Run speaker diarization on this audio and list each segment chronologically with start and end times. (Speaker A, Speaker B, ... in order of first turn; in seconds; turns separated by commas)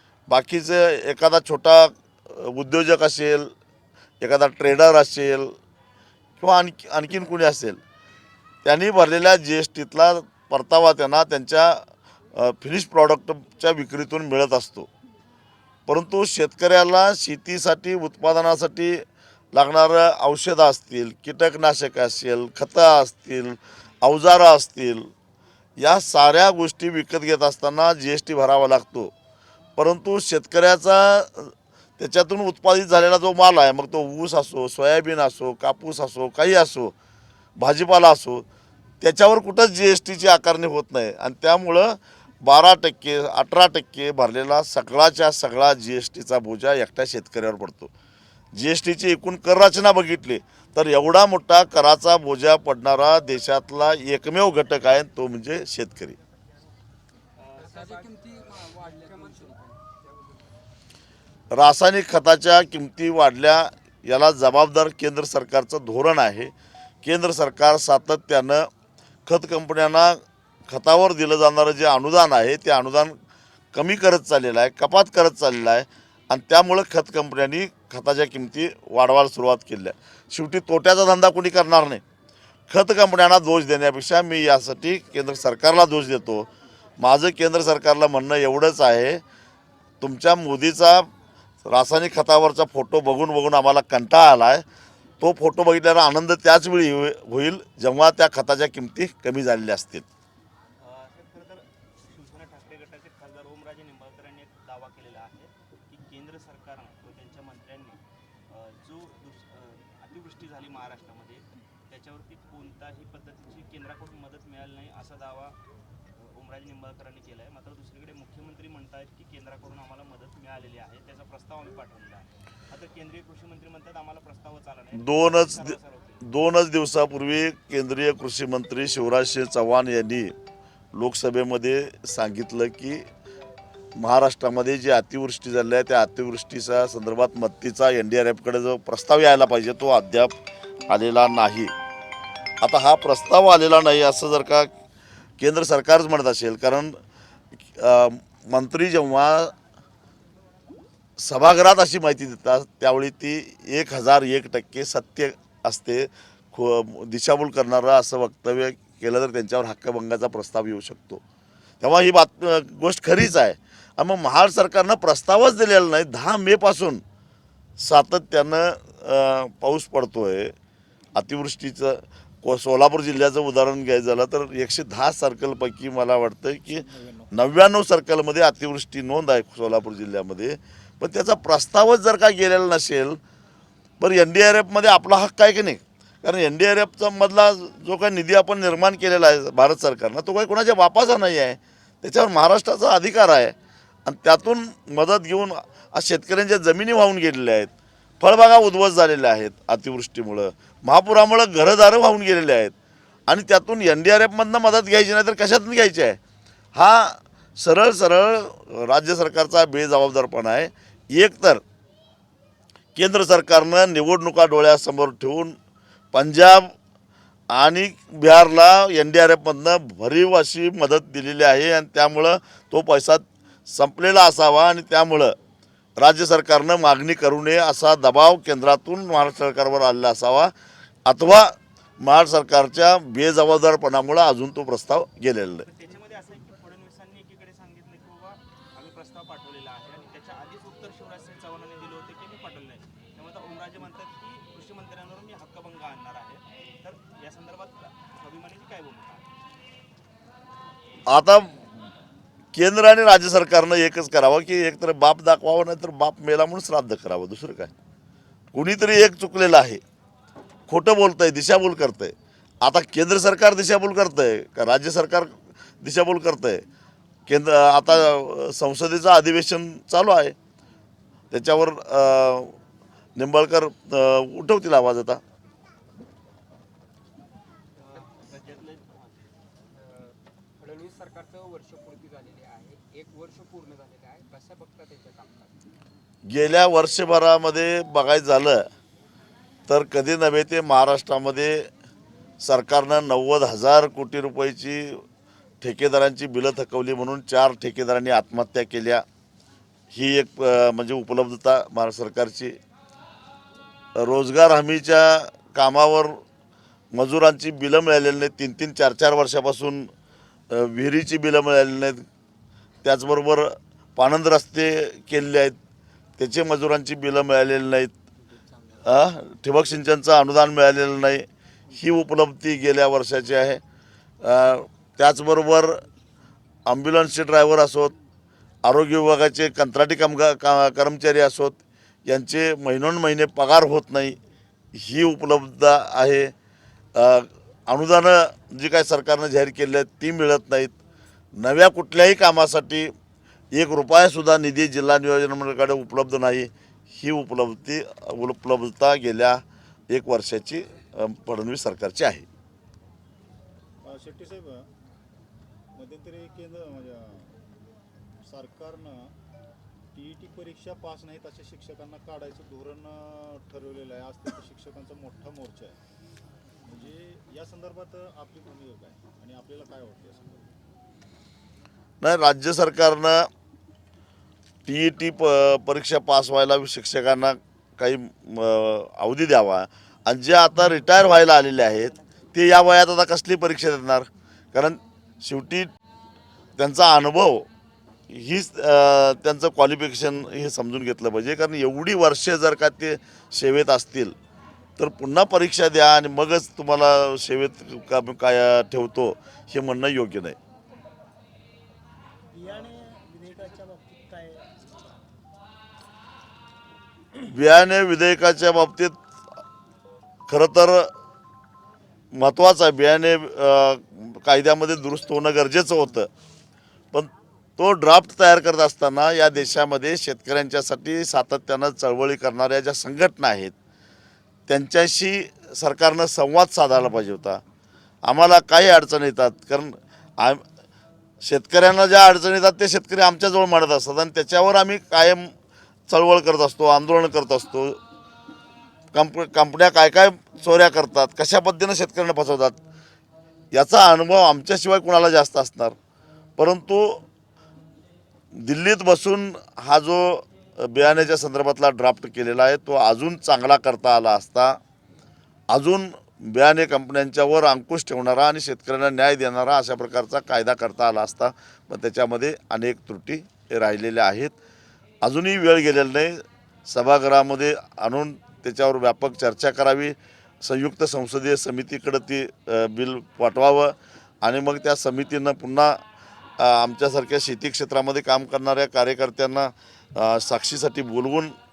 Speaker A: 0.3-3.5, Speaker A: 4.2-5.5, Speaker A: 6.4-7.8, Speaker A: 8.6-11.8, Speaker A: 12.3-14.9, Speaker A: 15.9-25.1, Speaker A: 25.8-29.1, Speaker A: 29.8-36.9, Speaker A: 37.6-38.4, Speaker A: 39.0-47.9, Speaker A: 48.5-56.1, Speaker B: 57.4-58.2, Speaker C: 57.6-60.2, Speaker B: 59.0-59.5, Speaker A: 61.5-68.7, Speaker A: 69.2-73.1, Speaker A: 73.7-82.0, Speaker A: 82.7-89.2, Speaker A: 90.0-91.1, Speaker A: 91.6-94.6, Speaker A: 95.2-100.0, Speaker B: 100.8-115.6, Speaker B: 116.1-126.2, Speaker A: 124.9-130.3, Speaker A: 130.9-133.0, Speaker A: 134.0-141.7, Speaker A: 142.6-144.7, Speaker A: 145.4-147.0, Speaker A: 147.7-149.5, Speaker A: 151.2-161.2, Speaker A: 161.8-167.0, Speaker A: 167.8-170.5, Speaker A: 171.2-183.2, Speaker D: 176.7-177.3, Speaker A: 184.0-193.5, Speaker A: 194.1-202.7, Speaker A: 203.3-206.2, Speaker A: 206.7-211.6, Speaker A: 212.9-215.5, Speaker A: 216.1-216.7, Speaker A: 217.5-225.3, Speaker A: 226.0-230.5, Speaker A: 231.1-235.7, Speaker B: 235.6-249.3, Speaker A: 251.1-251.5, Speaker A: 252.5-257.7, Speaker A: 258.5-259.8, Speaker A: 260.7-266.6, Speaker A: 267.3-270.3, Speaker A: 271.3-272.6, Speaker A: 273.1-275.2, Speaker B: 277.8-279.3, Speaker C: 279.7-285.6, Speaker A: 286.3-288.6, Speaker A: 289.7-291.7, Speaker A: 292.4-295.0, Speaker A: 295.6-299.0, Speaker A: 299.9-302.6, Speaker A: 304.0-306.2, Speaker A: 306.9-309.9, Speaker A: 310.5-312.0, Speaker A: 312.8-315.6, Speaker A: 316.2-317.9, Speaker C: 318.2-318.8, Speaker A: 318.8-323.6, Speaker A: 324.2-325.8, Speaker A: 326.7-327.9, Speaker A: 328.6-334.1, Speaker A: 334.7-336.3, Speaker A: 336.9-340.7, Speaker A: 341.4-342.9, Speaker A: 343.5-352.3, Speaker D: 353.8-354.7, Speaker D: 355.7-357.4, Speaker D: 358.2-359.1, Speaker D: 359.9-365.8, Speaker D: 366.6-370.5, Speaker A: 372.0-373.3, Speaker A: 374.6-385.7, Speaker A: 386.6-387.5, Speaker A: 388.1-394.1, Speaker A: 394.8-400.4, Speaker E: 402.3-405.1, Speaker A: 407.1-408.9, Speaker A: 410.3-410.9, Speaker A: 412.1-416.1, Speaker A: 416.9-423.5, Speaker A: 424.5-427.4, Speaker A: 428.0-430.4, Speaker A: 431.2-435.3, Speaker A: 435.9-437.8, Speaker A: 438.9-442.6, Speaker A: 443.5-445.8, Speaker A: 446.4-447.0, Speaker A: 448.4-454.6, Speaker A: 455.5-464.3, Speaker A: 465.0-475.8, Speaker A: 476.4-481.3